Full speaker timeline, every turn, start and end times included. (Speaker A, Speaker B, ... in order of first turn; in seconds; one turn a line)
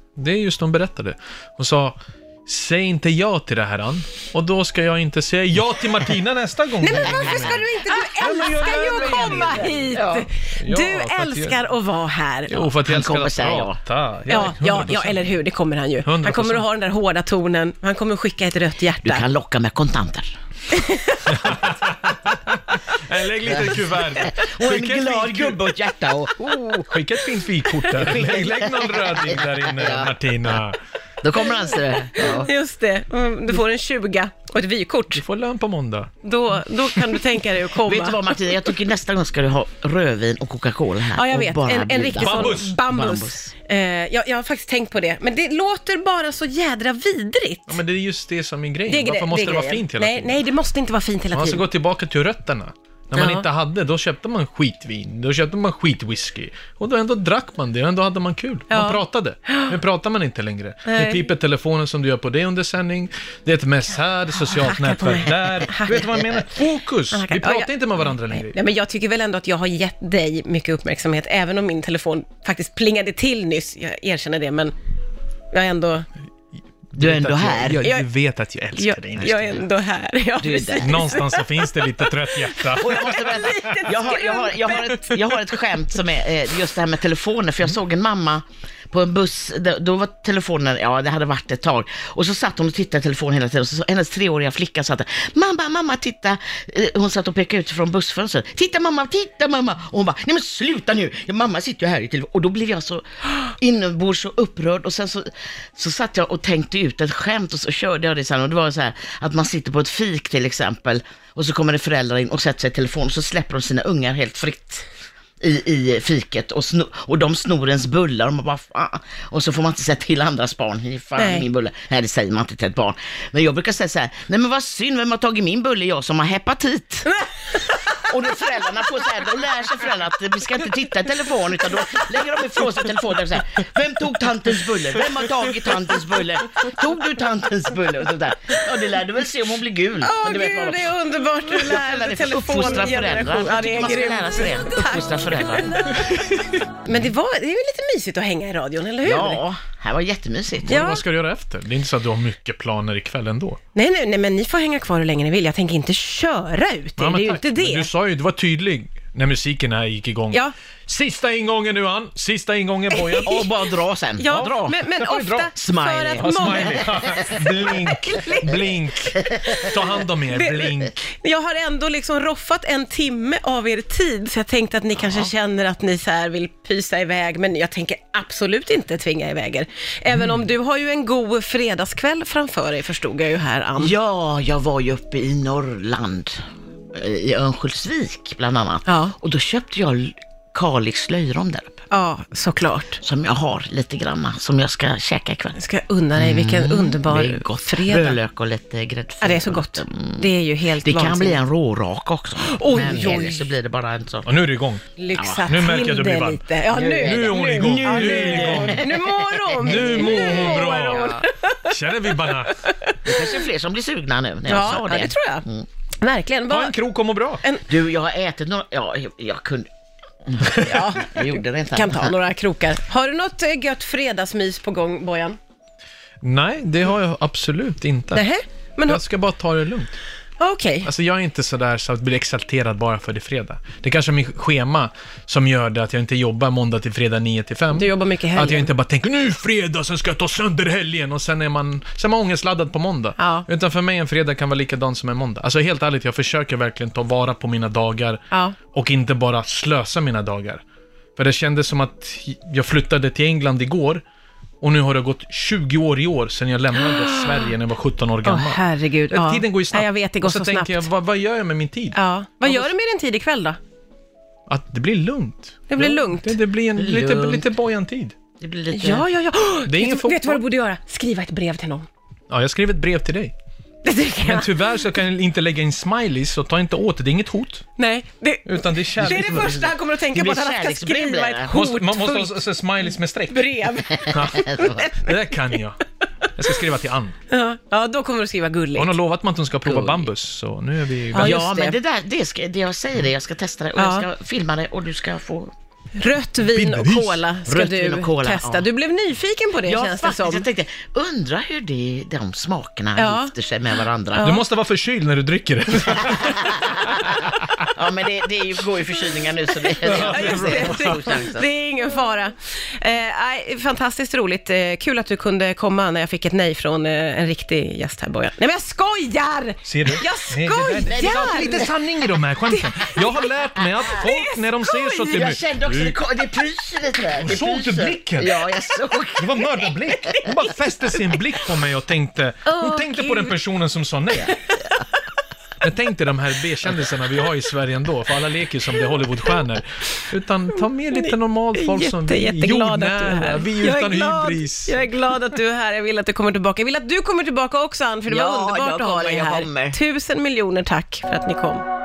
Speaker A: 0.2-10.0
Speaker B: 6.8-12.7
Speaker C: 9.9-10.3
Speaker A: 10.6-11.6
Speaker A: 12.5-15.3
Speaker C: 12.8-13.8
Speaker B: 14.3-19.2
Speaker A: 16.0-16.6
Speaker C: 19.0-20.3
Speaker B: 20.7-21.3
Speaker A: 21.2-25.6
Speaker C: 24.2-26.9
Speaker A: 26.9-30.8
Speaker C: 28.0-30.1
Speaker C: 31.2-32.5
Speaker B: 32.1-35.2
Speaker A: 35.1-36.1
Speaker B: 36.2-38.3
Speaker C: 37.8-43.5
Speaker B: 41.1-47.8
Speaker A: 42.2-42.8
Speaker A: 47.7-50.4
Speaker B: 48.9-51.6
Speaker A: 51.3-68.5
Speaker B: 53.1-53.4
Speaker B: 58.7-59.7
Speaker B: 60.9-61.2
Speaker B: 64.5-66.0
Speaker B: 67.1-67.7
Speaker B: 68.3-74.7
Speaker B: 75.5-76.1
Speaker A: 76.9-79.6
Speaker C: 77.0-77.8
Speaker B: 78.7-85.2
Speaker C: 80.4-81.0
Speaker A: 80.8-83.8
Speaker C: 82.8-114.8
Speaker C: 115.4-127.2
Speaker B: 121.2-121.5
Speaker C: 127.9-146.0
Speaker B: 140.0-149.4
Speaker C: 149.0-150.9
Speaker A: 150.7-153.6
Speaker B: 150.7-151.0
Speaker B: 153.7-157.9
Speaker A: 157.0-163.4
Speaker B: 162.9-163.4
Speaker C: 163.2-164.8
Speaker B: 164.2-168.6
Speaker A: 164.3-165.5
Speaker C: 165.5-166.9
Speaker A: 166.2-171.1
Speaker B: 170.3-183.9
Speaker C: 183.8-191.8
Speaker B: 188.8-189.1
Speaker B: 191.9-193.0
Speaker C: 193.0-195.6
Speaker B: 195.6-198.2
Speaker C: 196.1-200.2
Speaker B: 199.2-201.4
Speaker C: 200.8-204.3
Speaker B: 202.4-203.5
Speaker A: 204.2-204.8
Speaker B: 205.0-211.7
Speaker C: 205.1-205.4
Speaker A: 205.4-206.5
Speaker C: 206.7-211.2
Speaker A: 207.0-208.9
Speaker A: 209.5-212.6
Speaker B: 212.4-213.1
Speaker C: 213.0-215.6
Speaker B: 214.5-215.4
Speaker B: 216.0-216.7
Speaker A: 216.5-217.4
Speaker B: 217.4-217.7
Speaker C: 217.7-219.7
Speaker C: 220.2-222.1
Speaker B: 220.6-225.4
Speaker A: 226.2-228.2
Speaker B: 228.1-229.0
Speaker A: 228.9-229.9
Speaker B: 230.4-230.9
Speaker A: 230.8-250.6
Speaker B: 237.7-238.7
Speaker B: 243.2-243.4
Speaker B: 248.3-248.6
Speaker A: 251.2-254.0
Speaker A: 254.6-262.7
Speaker B: 256.8-257.5
Speaker B: 258.2-260.9
Speaker B: 261.9-263.6
Speaker A: 264.5-268.1
Speaker B: 265.7-266.4
Speaker C: 266.8-267.4
Speaker C: 268.4-269.0
Speaker B: 268.7-271.9
Speaker A: 269.7-270.4
Speaker A: 272.3-273.3
Speaker B: 273.8-274.6
Speaker A: 274.2-277.6
Speaker B: 277.8-282.3
Speaker A: 278.4-279.7
Speaker C: 280.1-281.6
Speaker A: 281.5-283.5
Speaker B: 283.3-285.2
Speaker C: 284.1-284.8
Speaker A: 284.1-285.8
Speaker A: 286.3-287.1
Speaker B: 287.3-288.9
Speaker A: 288.7-291.4
Speaker B: 291.1-291.8
Speaker C: 291.1-295.5
Speaker B: 293.8-294.1
Speaker B: 296.0-300.5
Speaker A: 296.5-297.2
Speaker C: 297.4-298.7
Speaker C: 299.6-304.3
Speaker B: 303.0-303.3
Speaker B: 304.1-304.4
Speaker A: 304.2-307.2
Speaker C: 307.7-311.5
Speaker B: 309.7-321.7
Speaker A: 309.8-310.9
Speaker A: 319.6-325.9
Speaker C: 320.9-321.5
Speaker B: 322.5-323.2
Speaker B: 323.9-325.1
Speaker C: 325.1-329.7
Speaker A: 327.2-328.4
Speaker A: 329.2-334.4
Speaker B: 330.0-331.1
Speaker B: 332.4-333.4
Speaker A: 335.6-344.9
Speaker B: 340.9-351.6
Speaker C: 348.1-349.8